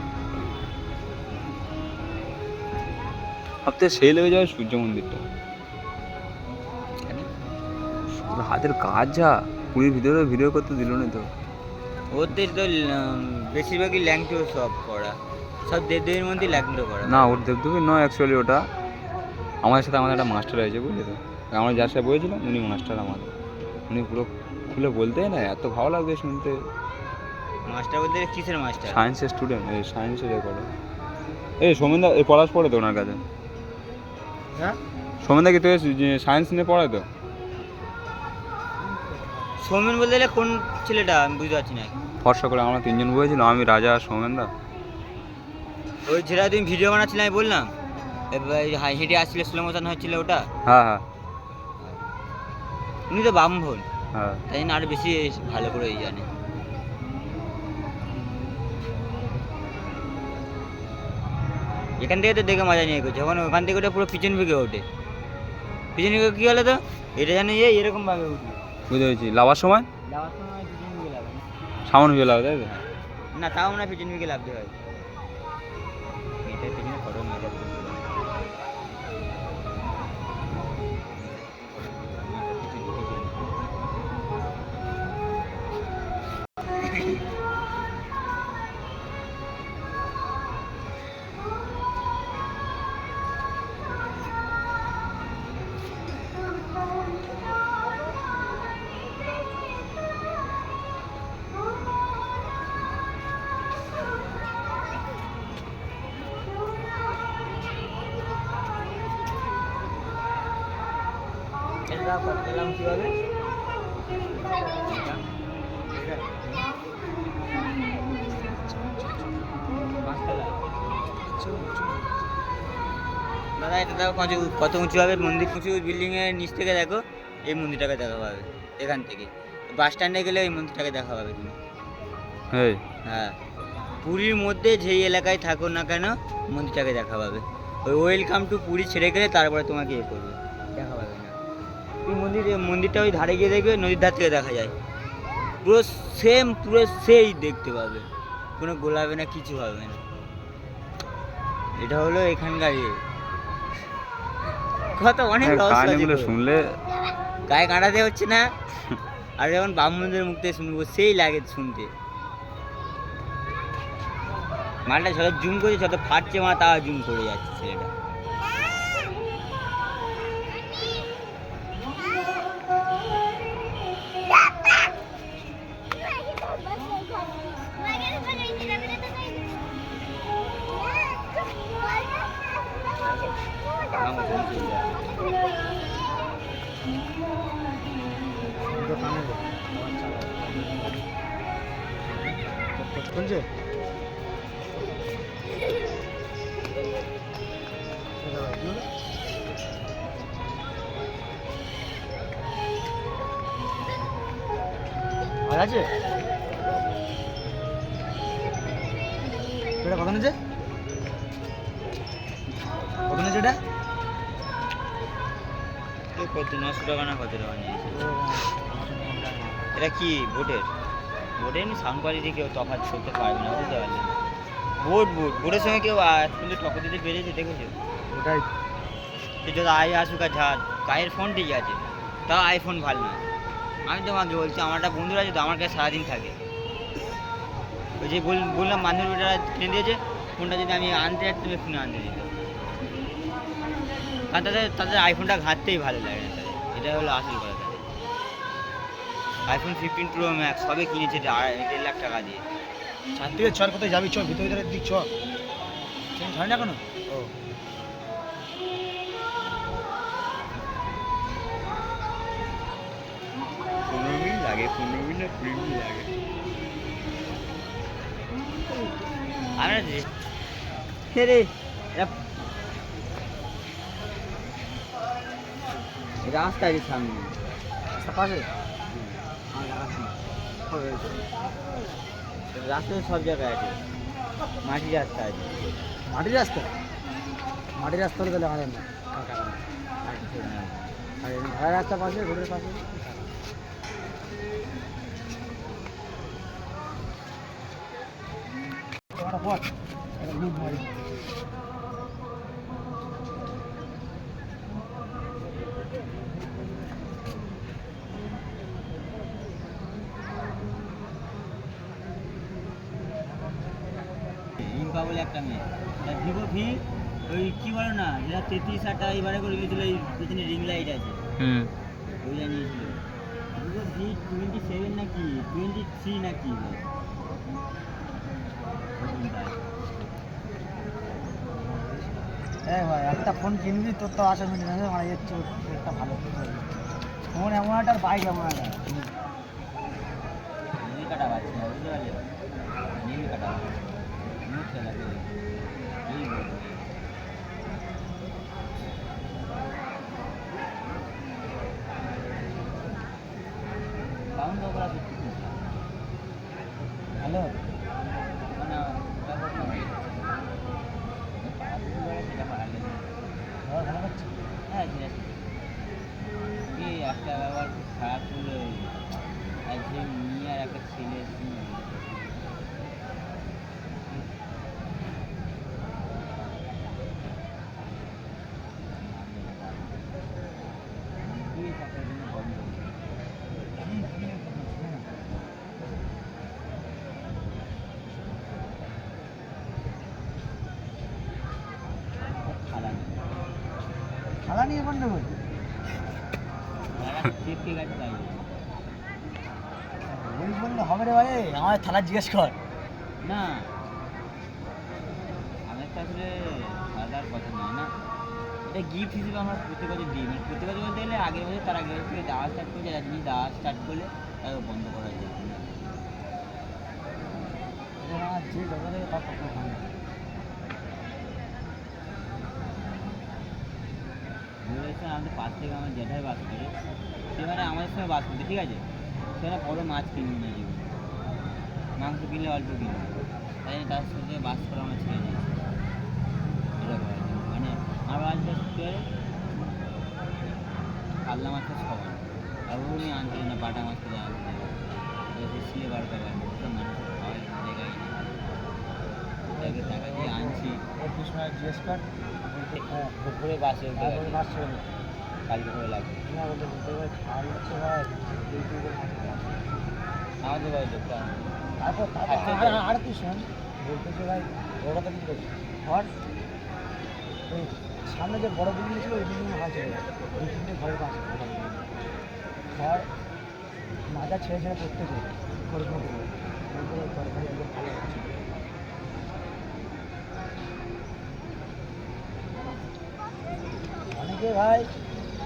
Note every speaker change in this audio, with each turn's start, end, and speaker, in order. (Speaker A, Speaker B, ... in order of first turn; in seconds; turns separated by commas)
Speaker A: 3.6-5.2, Speaker A: 8.1-11.3, Speaker B: 12.1-17.4, Speaker A: 17.1-18.7, Speaker A: 19.6-23.3, Speaker A: 23.9-26.6, Speaker B: 27.6-29.0, Speaker A: 28.9-30.7, Speaker A: 31.6-33.2, Speaker A: 35.2-37.1, Speaker C: 38.8-39.6, Speaker B: 39.6-41.9, Speaker A: 42.2-44.5, Speaker B: 46.1-47.7, Speaker B: 48.3-50.5, Speaker A: 50.6-51.0, Speaker B: 53.1-53.9, Speaker A: 54.1-54.4, Speaker B: 54.5-56.3, Speaker B: 62.0-64.8, Speaker B: 65.9-68.6, Speaker A: 68.9-69.9, Speaker B: 70.1-71.4, Speaker A: 71.8-72.8, Speaker B: 73.3-74.7, Speaker B: 76.4-78.1, Speaker B: 81.9-83.5, Speaker B: 111.9-113.2, Speaker B: 114.8-115.2, Speaker B: 115.9-116.3, Speaker B: 120.0-120.6, Speaker C: 121.0-122.2, Speaker B: 123.6-131.6, Speaker A: 132.5-132.8, Speaker B: 133.0-133.4, Speaker B: 134.0-141.4, Speaker B: 142.0-144.8, Speaker B: 145.6-150.0, Speaker B: 151.8-153.0, Speaker B: 154.9-156.3, Speaker A: 155.4-156.8, Speaker B: 157.5-158.5, Speaker B: 159.4-161.9, Speaker B: 164.8-167.9, Speaker B: 183.0-183.3, Speaker B: 183.9-185.2, Speaker C: 188.6-191.1, Speaker C: 192.0-193.5, Speaker C: 198.2-198.9, Speaker C: 205.4-205.9, Speaker C: 209.8-210.4, Speaker C: 213.1-213.6, Speaker B: 216.1-218.0, Speaker C: 217.9-219.8, Speaker B: 219.8-220.7, Speaker B: 221.4-224.2, Speaker B: 224.8-227.8, Speaker C: 228.1-228.5, Speaker B: 229.4-233.2, Speaker B: 233.8-236.4, Speaker B: 238.0-242.3, Speaker B: 244.3-247.8, Speaker B: 249.5-252.4, Speaker C: 253.2-255.1, Speaker C: 256.2-257.3, Speaker B: 263.8-266.1, Speaker B: 269.6-270.1, Speaker B: 271.1-272.1, Speaker B: 276.2-277.4, Speaker C: 277.9-278.5, Speaker B: 278.9-279.2, Speaker C: 279.5-280.1, Speaker C: 280.7-281.2, Speaker B: 282.5-283.8, Speaker B: 284.6-285.6, Speaker C: 286.1-286.7, Speaker C: 287.7-290.2, Speaker B: 290.1-290.8, Speaker C: 291.2-293.2, Speaker C: 299.1-300.9, Speaker B: 314.6-321.2, Speaker A: 321.4-321.7, Speaker B: 322.2-323.0, Speaker B: 323.5-326.9, Speaker B: 328.9-329.7, Speaker C: 331.4-336.8, Speaker C: 337.3-339.1, Speaker B: 340.8-342.2, Speaker B: 343.0-343.7, Speaker B: 344.4-345.3, Speaker B: 346.1-346.9, Speaker B: 354.4-355.7, Speaker B: 357.2-357.5, Speaker B: 358.6-360.1, Speaker B: 361.4-363.1, Speaker C: 363.6-364.3, Speaker B: 364.7-365.4, Speaker B: 366.7-369.0, Speaker B: 369.7-372.3, Speaker B: 379.0-380.0, Speaker B: 381.2-382.9, Speaker C: 383.7-385.1, Speaker B: 392.4-393.2, Speaker C: 394.4-395.4, Speaker B: 396.9-398.5, Speaker C: 400.1-402.6, Speaker B: 403.2-403.7, Speaker B: 405.7-407.9, Speaker B: 408.6-415.7, Speaker C: 418.0-419.9, Speaker B: 424.6-426.7, Speaker B: 427.3-428.8, Speaker B: 429.4-430.8, Speaker B: 432.0-435.5, Speaker B: 436.8-439.1, Speaker B: 441.2-448.2, Speaker C: 449.5-453.2, Speaker B: 449.6-450.8, Speaker B: 452.7-454.4, Speaker C: 453.9-454.8, Speaker B: 455.4-456.2, Speaker C: 456.2-459.9, Speaker B: 460.4-461.5, Speaker C: 461.8-466.1, Speaker B: 462.3-462.8, Speaker C: 467.5-471.9, Speaker C: 472.7-473.1, Speaker C: 474.1-478.5, Speaker C: 484.1-484.9